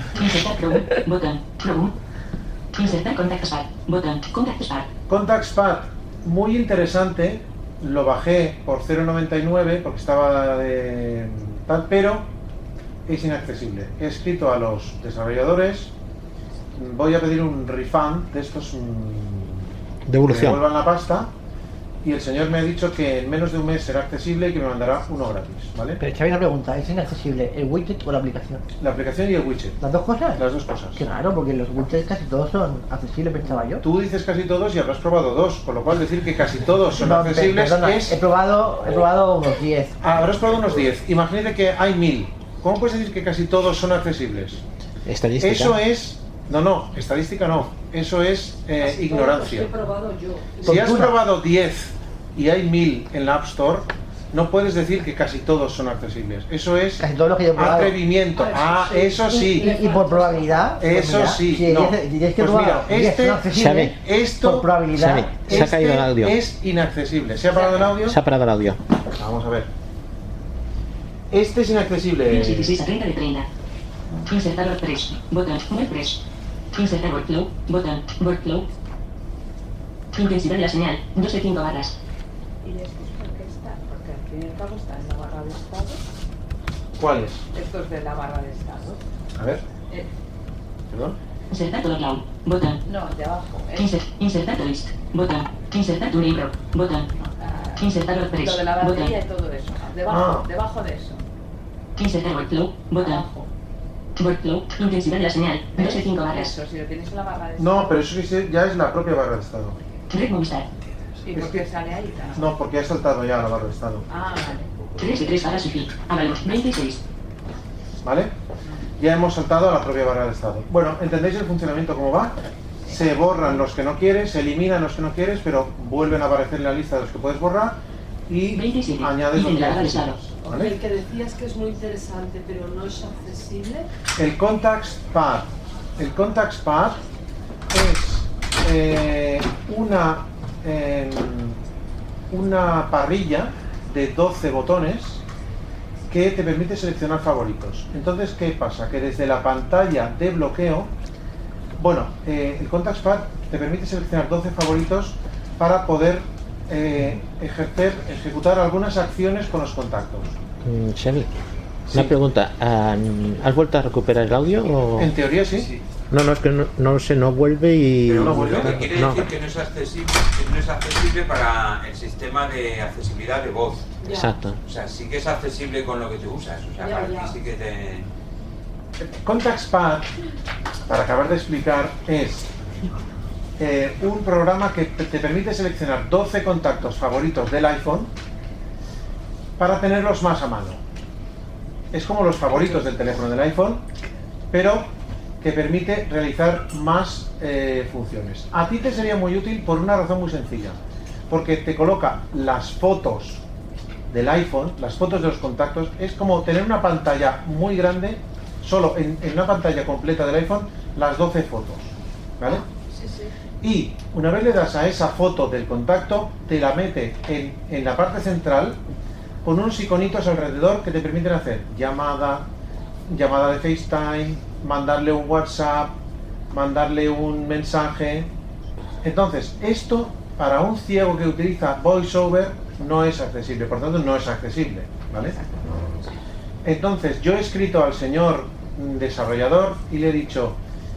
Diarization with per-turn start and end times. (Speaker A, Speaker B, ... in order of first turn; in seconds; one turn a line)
Speaker A: 0.1-2.0
Speaker A: 2.8-4.9
Speaker B: 5.1-12.3
Speaker B: 13.1-15.9
Speaker B: 16.8-19.7
Speaker C: 20.1-20.6
Speaker B: 20.3-21.3
Speaker B: 22.0-26.0
Speaker D: 26.0-28.6
Speaker B: 28.8-29.8
Speaker D: 29.8-30.4
Speaker B: 30.4-31.0
Speaker D: 30.9-33.8
Speaker B: 33.5-38.2
Speaker D: 36.9-40.0
Speaker B: 40.0-44.6
Speaker C: 45.1-45.8
Speaker B: 45.4-49.7
Speaker E: 48.8-50.9
Speaker D: 50.6-51.2
Speaker B: 50.6-59.7
Speaker D: 57.0-58.0
Speaker E: 58.4-60.5
Speaker D: 59.3-65.5
Speaker B: 60.8-64.8
Speaker C: 63.5-64.0
Speaker C: 65.0-66.4
Speaker B: 65.5-68.2
Speaker C: 67.8-68.8
Speaker B: 69.2-69.7
Speaker B: 71.3-72.8
Speaker A: 72.3-73.5
Speaker A: 74.3-76.2
Speaker A: 76.8-78.7
Speaker A: 80.2-82.0
Speaker F: 82.6-86.1
Speaker B: 87.0-87.4
Speaker F: 87.5-89.0
Speaker B: 89.4-89.6
Speaker B: 90.9-91.2
Speaker A: 91.5-92.8
Speaker F: 92.8-94.0
Speaker A: 93.8-97.1
Speaker F: 97.2-101.2
Speaker A: 97.8-99.2
Speaker B: 100.1-100.5
Speaker A: 102.0-103.2
Speaker F: 103.0-103.5
Speaker A: 104.2-106.5
Speaker F: 105.8-108.1
Speaker B: 107.6-109.8
Speaker A: 110.1-110.7
Speaker F: 111.2-112.5
Speaker B: 111.3-111.7
Speaker B: 112.3-114.1
Speaker F: 114.1-114.8
Speaker A: 115.0-117.0
Speaker B: 118.0-118.3
Speaker B: 119.0-122.4
Speaker B: 122.9-130.8
Speaker F: 122.9-123.7
Speaker A: 128.5-130.2
Speaker E: 130.5-133.9
Speaker B: 134.2-137.0
Speaker B: 137.7-141.6
Speaker B: 142.3-145.2
Speaker B: 146.1-150.9
Speaker B: 151.8-160.3
Speaker C: 160.6-161.3
Speaker B: 161.9-162.2
Speaker C: 161.9-165.1
Speaker B: 165.0-165.7
Speaker C: 166.1-169.3
Speaker G: 168.1-173.9
Speaker B: 168.2-168.9
Speaker E: 174.0-174.3
Speaker C: 174.1-174.6
Speaker G: 174.6-178.1
Speaker E: 176.8-177.4
Speaker B: 179.0-180.1
Speaker B: 180.9-182.5
Speaker B: 183.6-188.1
Speaker B: 189.6-190.8
Speaker B: 191.9-193.8
Speaker B: 194.5-194.9
Speaker B: 195.4-200.8
Speaker B: 201.3-203.4
Speaker B: 204.1-212.7
Speaker E: 212.5-213.3
Speaker B: 213.6-218.8
Speaker B: 219.4-222.5
Speaker B: 223.1-225.9
Speaker B: 226.5-228.3
Speaker B: 229.0-235.4
Speaker B: 236.6-240.6